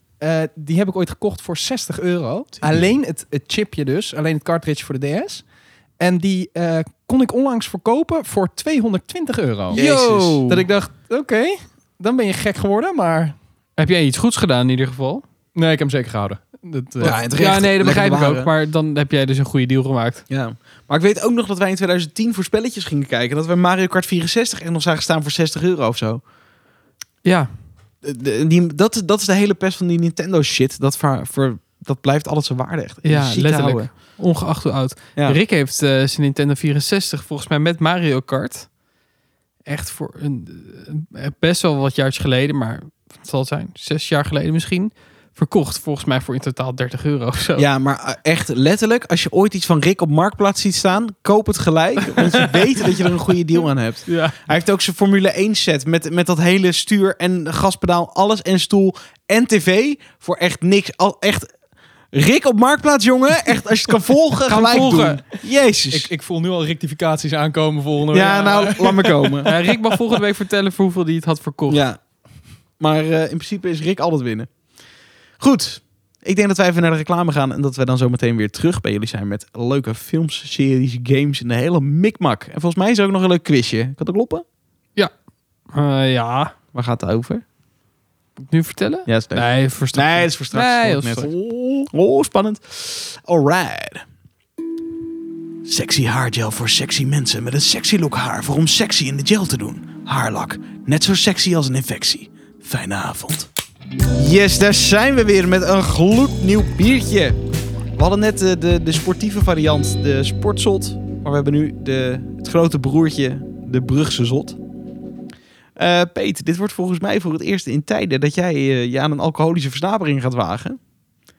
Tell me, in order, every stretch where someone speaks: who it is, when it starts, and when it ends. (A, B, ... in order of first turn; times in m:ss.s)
0:00.2-0:05.4 A
0:06.0-0:13.4 A
0:09.7-0:10.5 B
0:09.7-0:10.6 C
0:13.8-0:15.2 C
0:15.5-0:17.2 A
0:17.0-0:18.5 B
0:17.1-0:20.2 C
0:20.3-0:26.2 B
0:27.2-0:27.5 C
0:28.0-0:33.9 B
0:33.0-0:38.7 C
0:39.6-0:47.6 C
0:47.6-1:01.5 B
0:52.2-0:53.0 C
0:54.0-0:54.4 C
1:02.1-1:06.1 B
1:04.5-1:05.2 C
1:05.9-1:09.8 A
1:08.1-1:09.5 B
1:08.3-1:08.7 C
1:09.4-1:11.8 C
1:11.7-1:12.0 B
1:12.8-1:14.5 B
1:15.4-1:24.4 B
1:25.7-1:26.5 C
1:26.7-1:27.4 B
1:28.5-1:31.3 C
1:29.1-1:34.0 B
1:35.6-1:43.5 B
1:44.1-1:47.4 B
1:48.0-1:54.6 B
1:55.8-2:00.8 B